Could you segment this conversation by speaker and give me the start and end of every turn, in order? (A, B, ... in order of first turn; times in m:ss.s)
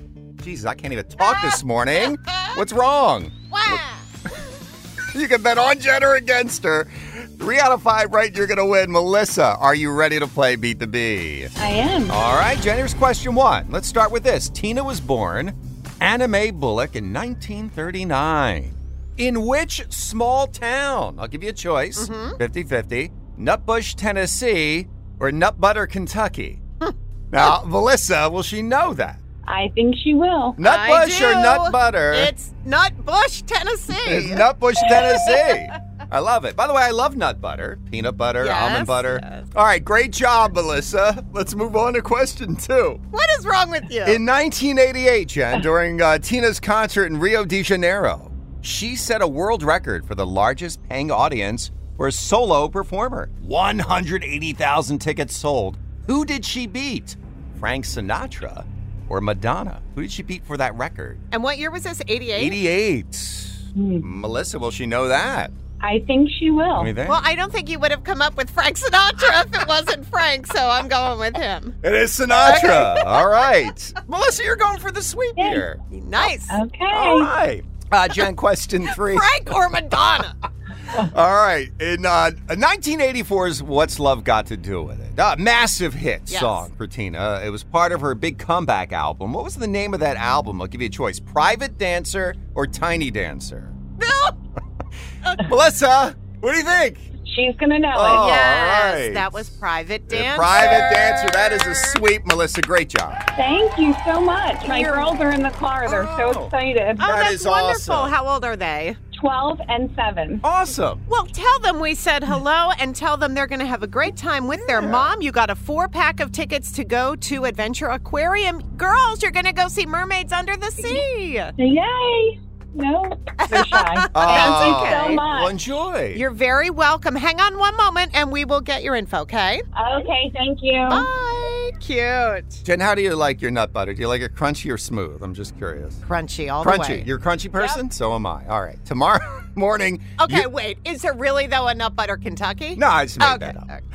0:00.4-0:03.8 A
0:01.2-0:02.6 B
0:03.5-0:04.1 B
0:05.1-0:11.5 A
0:11.6-0:12.2 C
0:12.1-0:26.6 A
0:22.0-0:22.4 B
0:27.3-0:29.2 A
0:29.5-0:30.6 C
0:30.6-0:32.3 A
0:30.6-0:35.6 B
0:33.9-0:43.0 A
0:38.4-0:39.5 B
0:43.1-0:44.2 B
0:44.0-1:01.2 A
1:01.3-1:02.6 B
1:02.4-1:05.5 A
1:03.8-1:04.1 C
1:05.8-1:06.9 C
1:06.8-1:07.2 A
1:07.0-1:11.8 B
1:11.8-1:15.8 A
1:12.4-1:13.3 B
1:15.4-1:15.7 C
1:15.9-1:16.6 B
1:16.5-1:17.3 C
1:16.9-1:19.3 A
1:18.8-1:20.4 B
1:20.9-1:33.8 A
1:26.3-1:26.7 B
1:34.0-1:34.4 B
1:35.3-1:37.1 A
1:37.3-1:38.4 C
1:37.9-1:39.5 A
1:38.0-1:42.0 B
1:40.1-1:43.2 A
1:43.4-1:47.1 C
1:44.7-1:45.1 B
1:45.9-1:48.1 A
1:47.0-1:49.0 B
1:49.1-1:50.4 C
1:50.4-1:51.0 A
1:51.1-2:01.5 B
1:54.7-1:55.1 A
2:01.6-2:05.6 C
2:03.4-2:05.2 B
2:04.1-2:06.2 A
2:06.1-2:09.6 B
2:09.8-2:11.1 C
2:10.9-2:12.6 B
2:12.6-2:16.0 A
2:16.0-2:17.8 B
2:16.6-2:20.5 A
2:20.2-2:23.8 B
2:22.8-2:23.7 A